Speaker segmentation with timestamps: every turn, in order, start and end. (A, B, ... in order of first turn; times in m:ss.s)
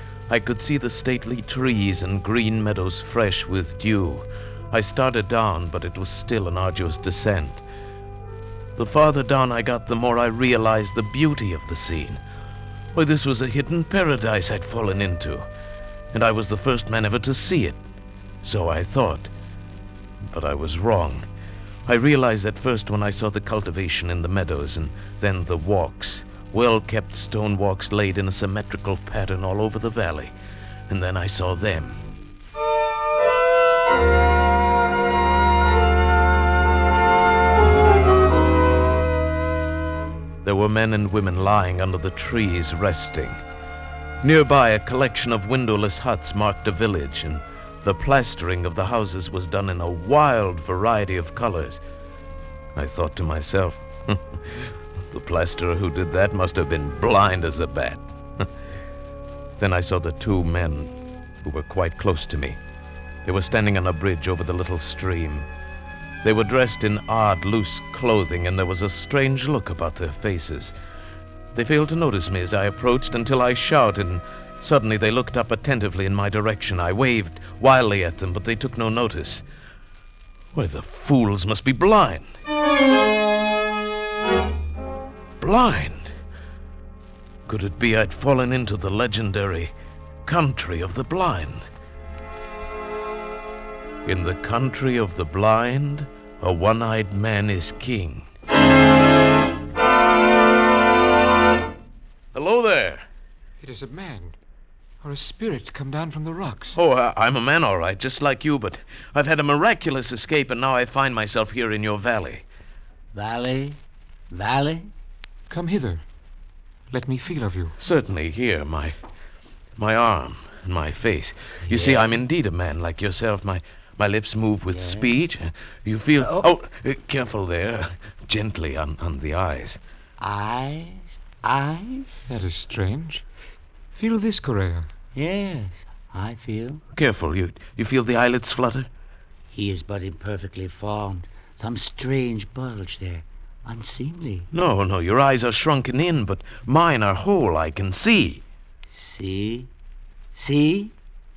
0:00.3-0:07.6 A
0:08.8-0:12.2 A
0:12.9-0:15.5 A
0:16.1-0:17.8 A
0:18.4-0:19.3 A
0:20.2-0:21.2 A
0:21.8-0:30.3 A
0:30.9-0:32.0 A
0:40.4-0:43.4 A
0:44.2-0:51.8 A
0:52.7-0:58.5 A
0:59.6-1:02.6 A
1:03.2-1:05.5 A
1:06.2-1:10.7 A
1:11.5-1:19.4 A
1:20.5-1:22.3 A
1:25.4-1:26.1 A
1:27.5-1:29.7 A
1:30.2-1:31.7 A
1:34.0-1:38.3 A
1:42.3-1:43.0 A
1:43.6-1:44.4 B
1:45.0-1:46.8 B
1:46.8-1:52.4 A
1:53.1-1:54.9 C
1:55.5-1:56.0 B
1:56.9-1:57.7 B
1:57.8-1:59.0 A
1:59.8-2:09.8 A
2:01.6-2:02.2 C
2:04.7-2:05.1 C
2:06.2-2:06.5 C
2:10.2-2:12.3 C
2:12.3-2:13.2 B
2:14.0-2:14.9 B
2:15.1-2:16.8 C
2:16.9-2:18.9 A
2:19.5-2:24.5 C
2:24.5-2:28.4 A
2:28.9-2:29.7 C
2:30.3-2:30.9 C